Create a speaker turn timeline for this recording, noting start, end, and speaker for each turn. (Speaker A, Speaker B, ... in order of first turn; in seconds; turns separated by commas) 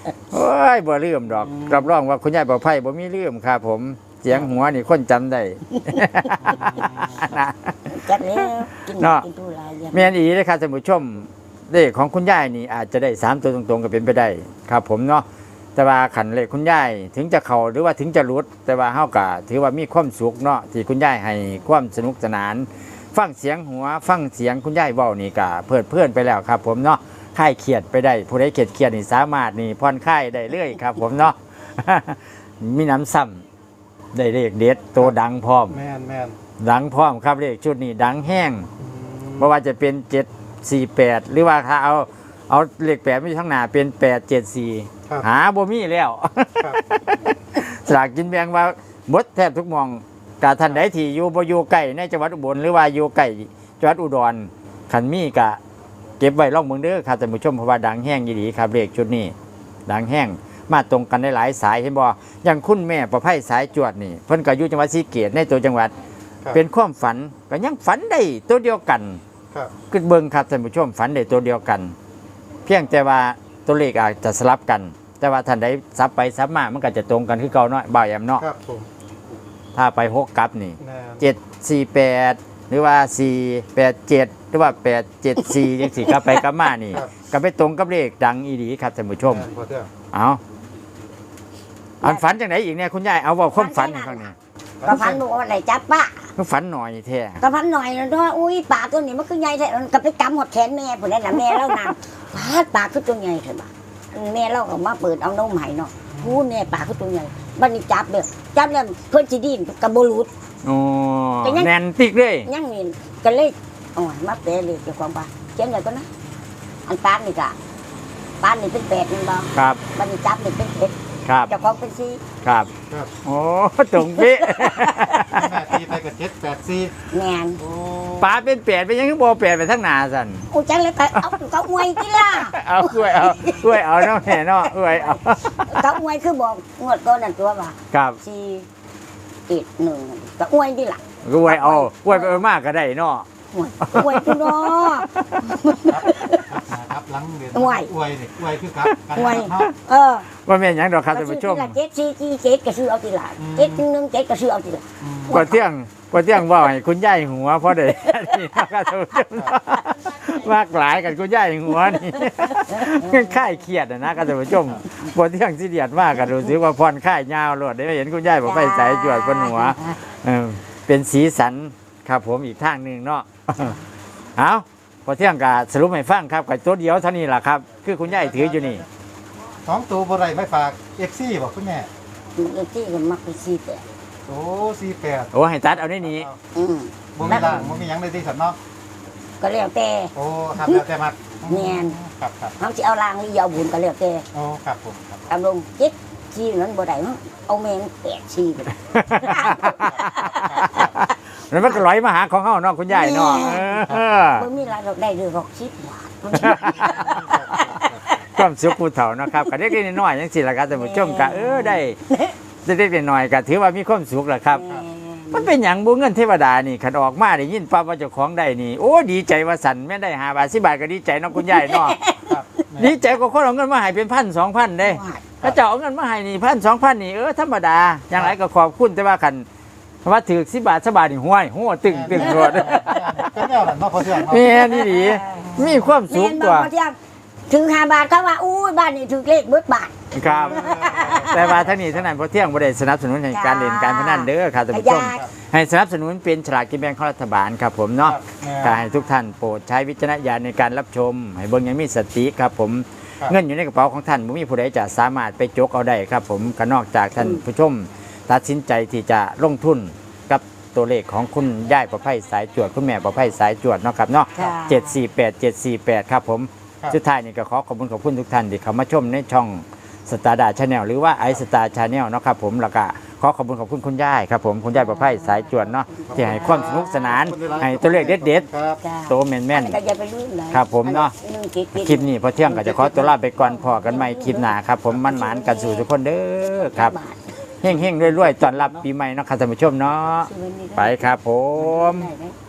Speaker A: 0.3-9.2, Speaker B: 1.4-1.8, Speaker B: 6.4-7.3, Speaker C: 7.8-10.1, Speaker A: 9.9-33.4, Speaker A: 34.1-35.8, Speaker B: 35.7-36.4, Speaker A: 36.6-38.7, Speaker B: 38.8-39.5, Speaker A: 39.4-55.6, Speaker A: 56.2-59.3, Speaker A: 59.9-65.9, Speaker A: 66.5-69.2, Speaker A: 69.9-71.9, Speaker A: 72.7-78.5, Speaker B: 78.4-78.9, Speaker A: 79.7-89.5, Speaker B: 80.8-81.2, Speaker C: 86.0-86.3, Speaker B: 89.2-89.9, Speaker A: 90.1-90.4, Speaker C: 92.0-92.3, Speaker A: 92.0-94.3, Speaker C: 93.5-96.3, Speaker B: 94.8-95.2, Speaker A: 96.3-97.4, Speaker C: 97.4-110.3, Speaker A: 110.6-112.5, Speaker C: 111.4-111.7, Speaker C: 112.4-116.1, Speaker C: 116.8-117.5, Speaker C: 118.4-121.0, Speaker A: 119.5-119.8, Speaker A: 121.2-121.7, Speaker C: 121.5-122.2, Speaker A: 122.4-122.7, Speaker A: 123.2-125.8, Speaker C: 124.0-125.3, Speaker B: 125.2-127.0, Speaker C: 127.1-127.6, Speaker B: 127.6-128.4, Speaker A: 128.2-130.4, Speaker C: 130.5-135.1, Speaker A: 131.9-135.9, Speaker C: 135.7-138.7, Speaker A: 137.9-138.2, Speaker C: 139.5-142.4, Speaker A: 141.2-143.2, Speaker C: 143.5-146.6, Speaker A: 143.8-145.4, Speaker B: 145.9-149.7, Speaker C: 147.5-147.9, Speaker C: 149.1-150.3, Speaker A: 150.4-151.7, Speaker C: 151.1-155.6, Speaker B: 153.4-153.8, Speaker B: 155.0-155.5, Speaker A: 155.3-173.8, Speaker C: 158.1-158.4, Speaker C: 162.5-163.3, Speaker C: 168.4-170.0, Speaker A: 174.3-178.8, Speaker B: 178.1-178.8, Speaker B: 179.6-181.9, Speaker C: 182.3-183.8, Speaker B: 184.3-185.4, Speaker A: 185.3-186.3, Speaker B: 185.9-186.3, Speaker C: 186.5-187.5, Speaker B: 187.2-188.6, Speaker A: 187.2-187.9, Speaker C: 189.4-190.8, Speaker B: 190.1-192.6, Speaker C: 191.5-192.0, Speaker C: 192.6-194.2, Speaker B: 194.3-195.2, Speaker C: 195.3-200.8, Speaker A: 198.9-204.5, Speaker C: 202.9-208.2, Speaker B: 203.8-204.0, Speaker A: 206.3-207.1, Speaker B: 206.7-208.0, Speaker A: 208.3-212.0, Speaker C: 210.7-212.3, Speaker A: 212.7-214.6, Speaker C: 214.5-215.5, Speaker A: 215.3-222.0, Speaker C: 221.3-222.3, Speaker B: 222.2-222.9, Speaker A: 222.8-229.4, Speaker C: 224.8-225.5, Speaker A: 230.0-233.4, Speaker B: 231.9-234.7, Speaker C: 232.1-232.9, Speaker A: 234.0-236.7, Speaker C: 234.4-237.0, Speaker C: 237.5-241.7, Speaker A: 240.1-240.6, Speaker B: 240.2-241.9, Speaker A: 241.3-278.4, Speaker C: 243.3-245.3, Speaker B: 248.0-248.8, Speaker C: 264.3-265.0, Speaker C: 274.7-277.3, Speaker B: 276.1-278.8, Speaker C: 278.8-285.9, Speaker A: 279.1-279.8, Speaker A: 280.5-281.1, Speaker A: 281.7-286.9, Speaker C: 286.4-287.2, Speaker A: 287.6-292.1, Speaker B: 287.6-288.8, Speaker C: 290.2-292.3